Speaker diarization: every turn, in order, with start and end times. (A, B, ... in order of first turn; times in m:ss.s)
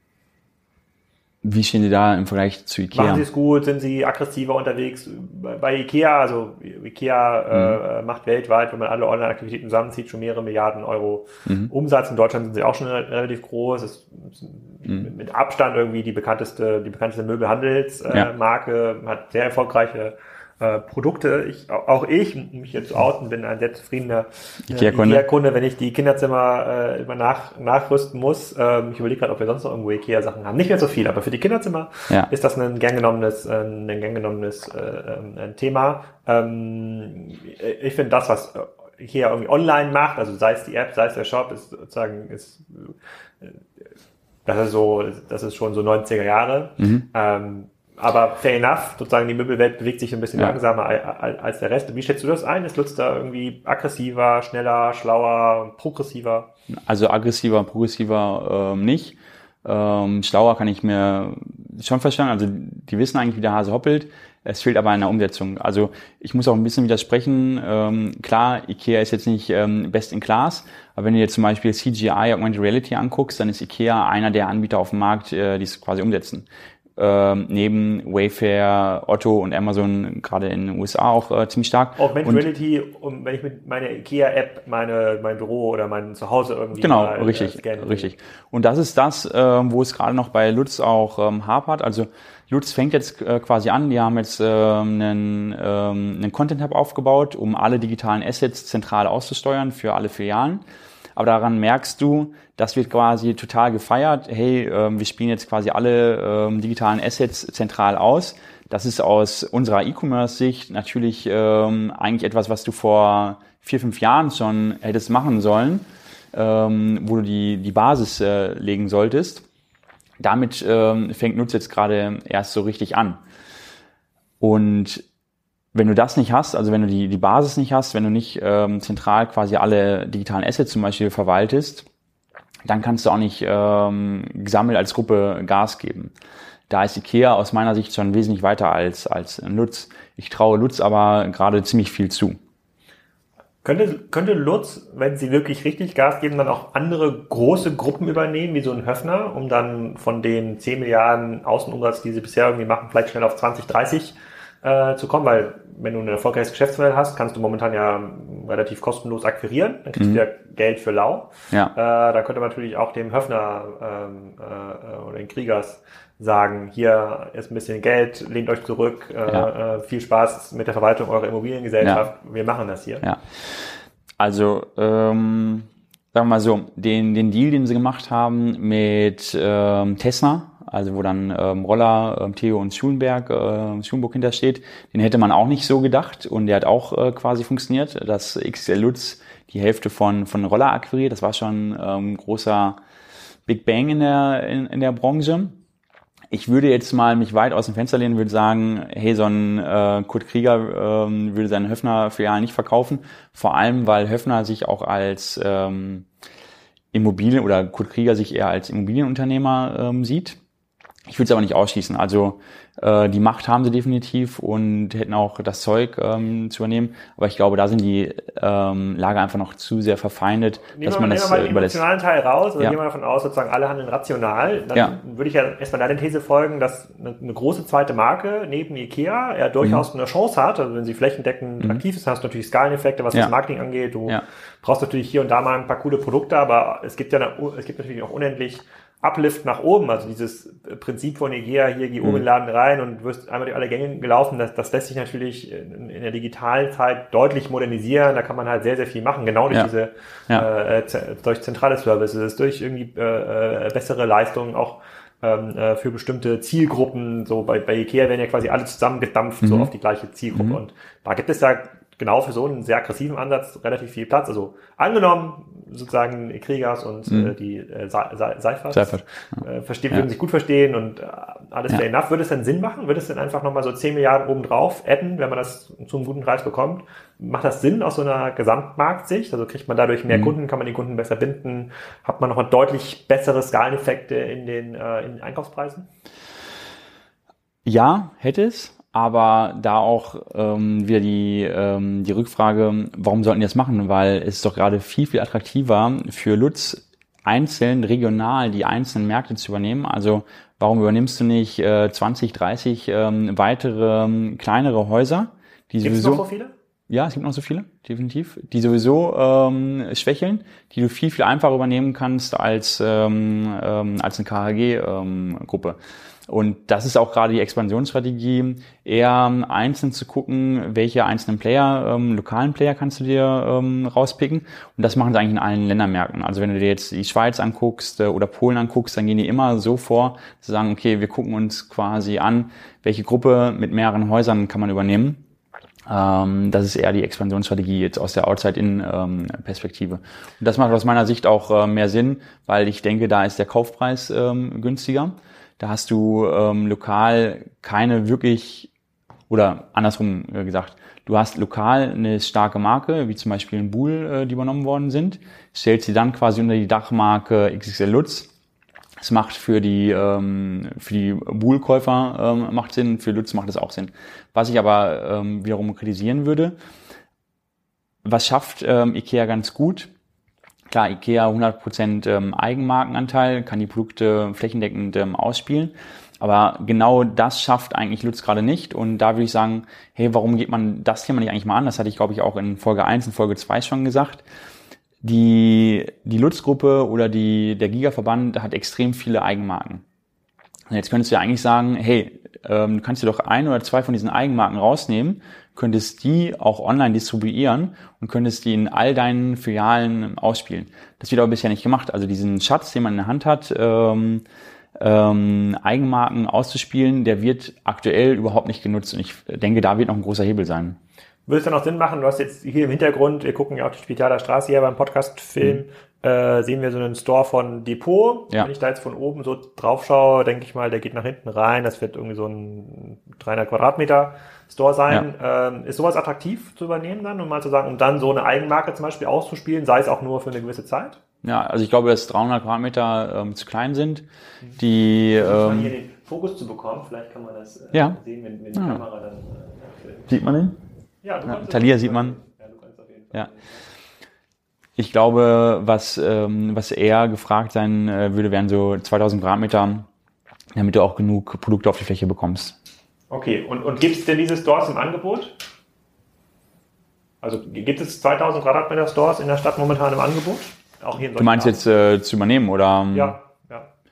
0:01.4-0:03.2 A
0:02.9-0:43.6 B
0:07.5-0:07.8 A
0:24.7-0:25.3 A
0:44.5-0:56.5 B
0:46.8-0:47.0 A
0:56.7-1:22.4 A
1:22.0-1:28.1 B
1:26.8-1:40.6 A
1:41.2-1:59.4 A
2:00.2-2:03.2 A
2:04.4-2:05.0 A
2:05.7-2:11.9 A
2:12.7-2:16.1 A
2:16.7-2:22.4 A
2:23.6-2:53.0 B
2:40.0-2:40.2 A
2:53.0-2:53.7 A
2:54.2-3:12.8 A
3:13.5-3:15.6 A
3:16.3-3:26.1 A
3:26.9-3:30.4 A
3:31.1-3:41.8 A
3:40.7-4:45.9 B
4:19.4-4:19.7 A
4:28.7-4:29.0 A
4:47.6-5:06.2 A
5:05.8-5:06.5 B
5:06.9-5:35.2 A
5:35.9-5:48.7 A
5:49.3-5:58.3 A
5:59.0-6:06.6 A
6:08.0-6:09.9 A
6:10.7-6:24.2 A
6:25.0-6:29.8 A
6:30.7-6:44.2 A
6:44.8-6:50.8 A
6:51.3-7:11.0 B
7:11.2-7:14.1 A
7:14.6-7:15.7 A
7:15.2-7:20.1 B
7:17.7-7:18.0 A
7:18.6-7:18.8 A
7:20.1-7:20.6 A
7:21.0-7:23.5 B
7:21.3-7:22.2 A
7:24.8-7:29.9 A
7:30.6-7:32.6 A
7:33.1-7:35.4 B
7:37.2-7:41.6 B
7:41.2-7:43.2 A
7:42.9-7:43.7 B